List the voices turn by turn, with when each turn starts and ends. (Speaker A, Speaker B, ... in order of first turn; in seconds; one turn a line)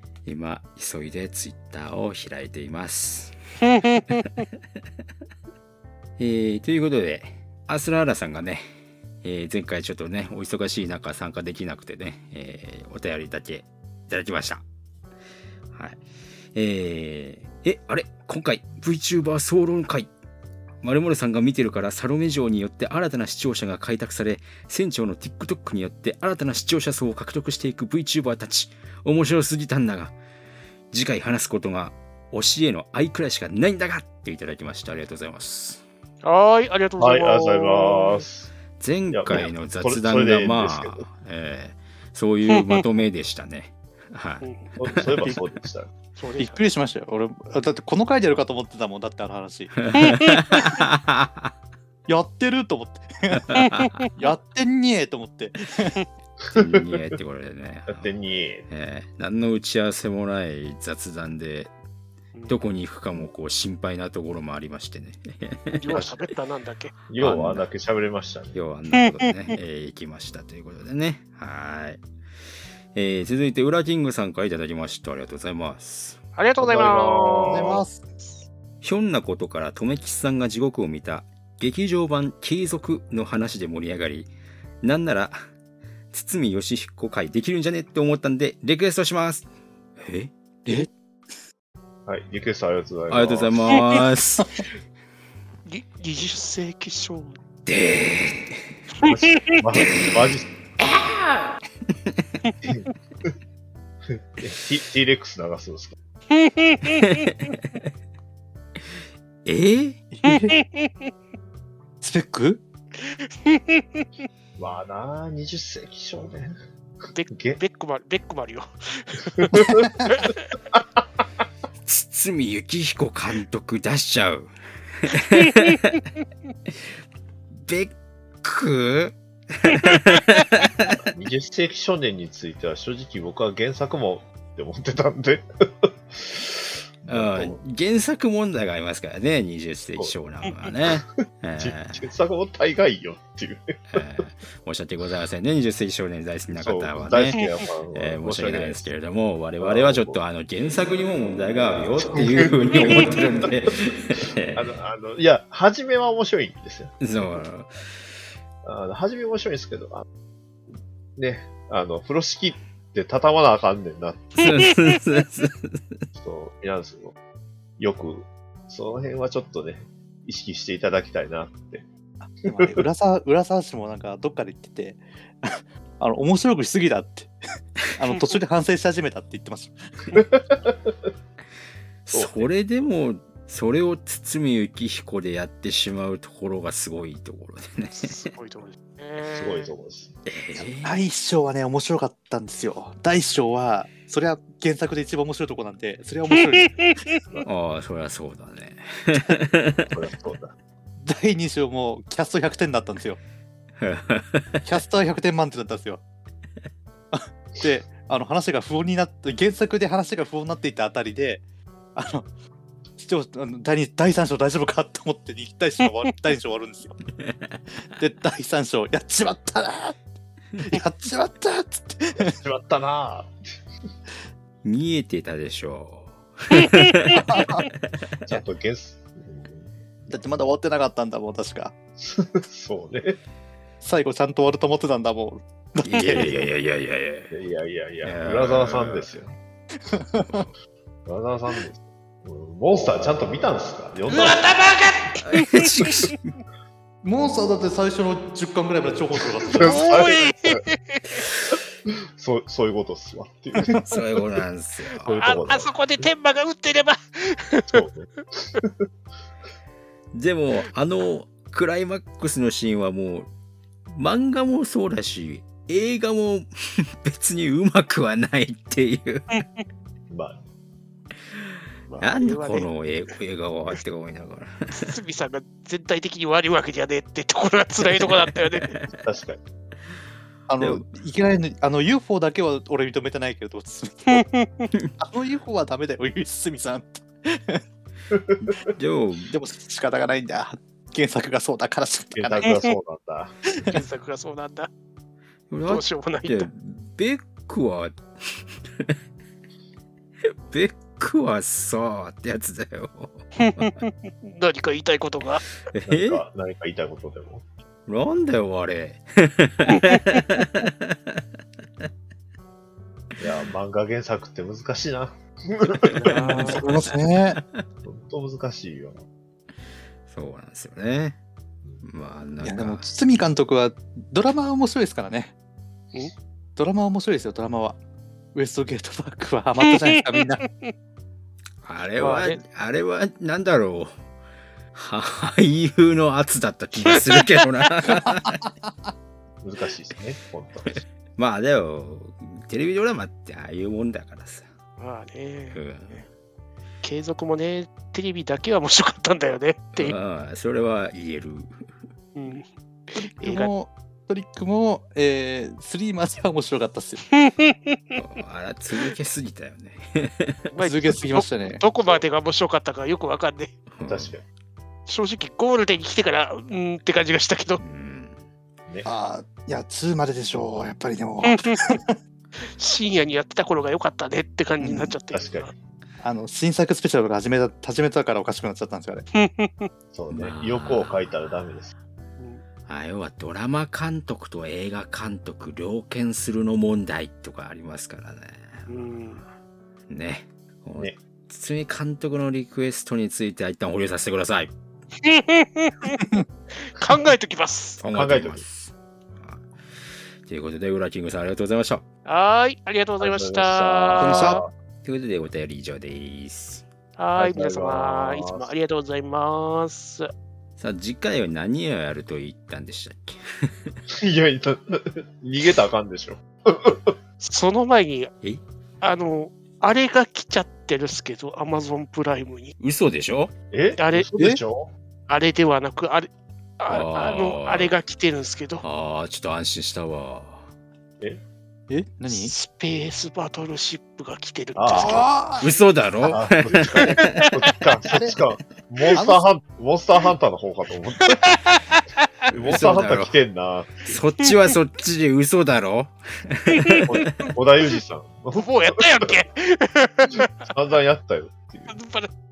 Speaker A: 0.3-3.3
Speaker B: 3.6-4.4
Speaker A: 6.2-8.7
Speaker A: 9.2-14.6
Speaker A: 15.7-16.0
Speaker A: 16.5-20.1
Speaker A: 20.8-30.1
Speaker A: 30.9-35.8
Speaker B: 36.2-38.3
Speaker C: 37.0-38.5
Speaker A: 38.8-45.4
Speaker C: 39.1-41.0
Speaker B: 42.5-42.8
Speaker C: 44.8-45.9
Speaker B: 46.2-46.6
Speaker D: 46.4-49.9
Speaker A: 49.8-51.5
Speaker D: 52.1-56.0
Speaker A: 53.4-54.0
Speaker B: 53.6-54.1
Speaker C: 56.4-56.9
Speaker A: 56.5-58.1
Speaker C: 57.9-58.7
Speaker A: 58.7-61.7
Speaker A: 62.5-66.0
Speaker B: 65.7-67.0
Speaker C: 67.1-68.6
Speaker A: 67.2-67.7
Speaker A: 68.5-72.0
Speaker A: 72.9-76.2
Speaker B: 76.4-77.7
Speaker C: 76.6-77.8
Speaker D: 77.5-78.0
Speaker A: 78.8-84.3
Speaker A: 84.8-85.4
Speaker A: 86.1-89.5
Speaker A: 90.0-90.9
Speaker C: 92.1-93.8
Speaker A: 93.1-94.5
Speaker B: 95.7-97.4
Speaker A: 97.7-98.7
Speaker B: 99.0-99.6
Speaker C: 99.0-100.5
Speaker A: 100.8-101.4
Speaker A: 101.9-102.2
Speaker C: 104.1-106.0
Speaker B: 106.3-107.2
Speaker A: 107.0-107.8
Speaker A: 109.5-110.0
Speaker D: 110.1-110.6
Speaker B: 110.3-111.1
Speaker D: 112.0-112.6
Speaker B: 113.0-114.0
Speaker C: 114.6-116.5
Speaker B: 117.1-120.4
Speaker C: 117.3-117.6
Speaker C: 119.4-119.9
Speaker D: 119.6-120.1
Speaker A: 121.9-126.0
Speaker A: 127.5-131.0
Speaker C: 131.1-137.6
Speaker A: 137.1-142.0
Speaker C: 141.6-143.8
Speaker A: 143.9-147.4
Speaker C: 146.5-148.9
Speaker A: 147.9-154.7
Speaker C: 149.6-150.2
Speaker C: 152.1-153.3
Speaker C: 154.5-157.0
Speaker A: 157.0-158.1
Speaker C: 158.6-160.1
Speaker C: 161.2-164.5
Speaker A: 164.4-166.0
Speaker C: 166.2-167.1
Speaker C: 167.8-171.8
Speaker D: 172.2-177.4
Speaker D: 177.9-180.1
Speaker C: 180.1-180.9
Speaker A: 182.1-188.3
Speaker C: 182.1-182.5
Speaker B: 187.9-189.7
Speaker C: 189.3-190.1
Speaker A: 190.3-190.9
Speaker D: 190.8-196.9
Speaker B: 196.3-197.2
Speaker A: 197.4-199.9
Speaker C: 199.9-200.5
Speaker D: 201.0-203.2
Speaker A: 203.8-204.7
Speaker D: 204.6-206.0
Speaker D: 207.1-211.4
Speaker D: 211.9-212.3
Speaker D: 213.0-216.9
Speaker A: 217.2-217.6
Speaker D: 218.0-220.0
Speaker D: 220.6-222.3
Speaker C: 222.2-223.3
Speaker A: 224.6-227.5
Speaker D: 227.2-227.7
Speaker C: 228.3-230.1
Speaker D: 230.1-231.7
Speaker C: 232.0-233.2
Speaker D: 233.8-236.3
Speaker A: 235.8-237.3
Speaker C: 237.3-239.4
Speaker A: 238.0-239.1
Speaker D: 239.8-240.4
Speaker A: 240.2-240.5
Speaker C: 241.1-244.5
Speaker B: 244.1-245.7
Speaker A: 245.2-246.3
Speaker D: 247.0-249.8
Speaker C: 249.5-250.6
Speaker B: 249.6-251.0
Speaker C: 251.9-253.8
Speaker D: 253.6-253.8
Speaker A: 253.9-255.3
Speaker C: 255.0-256.1
Speaker B: 255.2-257.8
Speaker C: 257.7-258.8
Speaker A: 260.1-263.3
Speaker A: 263.9-269.4
Speaker C: 270.1-270.4
Speaker B: 271.9-272.7
Speaker A: 272.0-274.9
Speaker B: 274.7-278.8
Speaker A: 278.4-278.9
Speaker C: 279.0-279.4
Speaker D: 280.5-284.3
Speaker A: 280.6-280.9
Speaker B: 284.1-284.7
Speaker D: 285.0-287.6
Speaker C: 288.1-288.6
Speaker A: 288.8-289.3
Speaker D: 289.2-292.6
Speaker C: 292.1-293.4
Speaker B: 293.7-294.7
Speaker A: 295.5-298.9
Speaker B: 295.7-296.5
Speaker A: 300.2-303.7
Speaker B: 303.4-305.4
Speaker A: 305.7-306.2
Speaker C: 305.9-307.4
Speaker A: 307.9-311.2
Speaker C: 313.2-316.5
Speaker B: 315.9-316.7
Speaker A: 316.1-316.7
Speaker D: 316.4-317.4
Speaker A: 317.4-317.6
Speaker C: 317.8-319.0
Speaker A: 320.1-321.2
Speaker A: 321.8-322.8
Speaker D: 322.4-325.3
Speaker D: 326.6-327.8
Speaker D: 328.3-330.4
Speaker B: 329.7-330.7
Speaker A: 331.6-333.9
Speaker B: 332.0-332.4
Speaker A: 334.7-338.4
Speaker D: 337.9-338.7
Speaker C: 339.4-340.8
Speaker A: 340.8-344.5
Speaker B: 344.8-346.0
Speaker A: 345.5-346.1
Speaker B: 346.8-349.9
Speaker A: 349.8-351.8
Speaker B: 352.1-353.5
Speaker D: 353.0-357.0
Speaker B: 357.1-358.0
Speaker A: 357.9-360.5
Speaker B: 360.5-363.5
Speaker D: 360.6-361.6
Speaker A: 363.7-364.1
Speaker C: 363.9-364.2
Speaker B: 364.9-367.6
Speaker A: 367.6-368.2
Speaker D: 368.8-372.0
Speaker B: 371.2-371.6
Speaker B: 372.4-375.5
Speaker D: 374.6-374.9
Speaker C: 375.1-375.5
Speaker D: 376.0-379.1
Speaker B: 379.1-379.7
Speaker C: 379.9-381.7
Speaker A: 380.1-381.0
Speaker A: 382.7-389.2
Speaker B: 388.7-389.2
Speaker A: 389.9-394.5
Speaker B: 395.0-396.0
Speaker B: 396.6-397.8
Speaker A: 397.8-399.5
Speaker C: 397.9-398.4
Speaker A: 400.2-401.8
Speaker B: 402.0-404.4
Speaker C: 403.0-404.5
Speaker A: 404.0-406.6
Speaker B: 407.0-410.1
Speaker C: 407.2-408.5
Speaker A: 410.6-413.8
Speaker C: 414.0-416.9
Speaker B: 417.2-418.1
Speaker B: 418.8-422.6
Speaker A: 422.6-423.3
Speaker C: 423.5-424.7
Speaker B: 423.8-424.1
Speaker B: 425.1-428.6
Speaker A: 426.7-427.7
Speaker A: 428.6-430.4
Speaker D: 431.7-432.3
Speaker B: 432.1-435.1
Speaker C: 434.6-435.1
Speaker D: 434.8-435.5
Speaker A: 435.4-437.3
Speaker C: 436.1-441.4
Speaker B: 436.7-437.6
Speaker D: 437.9-438.2
Speaker D: 438.9-439.2
Speaker B: 441.1-441.8
Speaker C: 442.3-444.0
Speaker A: 442.4-443.2
Speaker A: 443.9-447.3
Speaker B: 446.5-447.1
Speaker C: 446.9-448.8
Speaker B: 448.3-450.5
Speaker C: 450.4-451.8
Speaker B: 451.7-452.1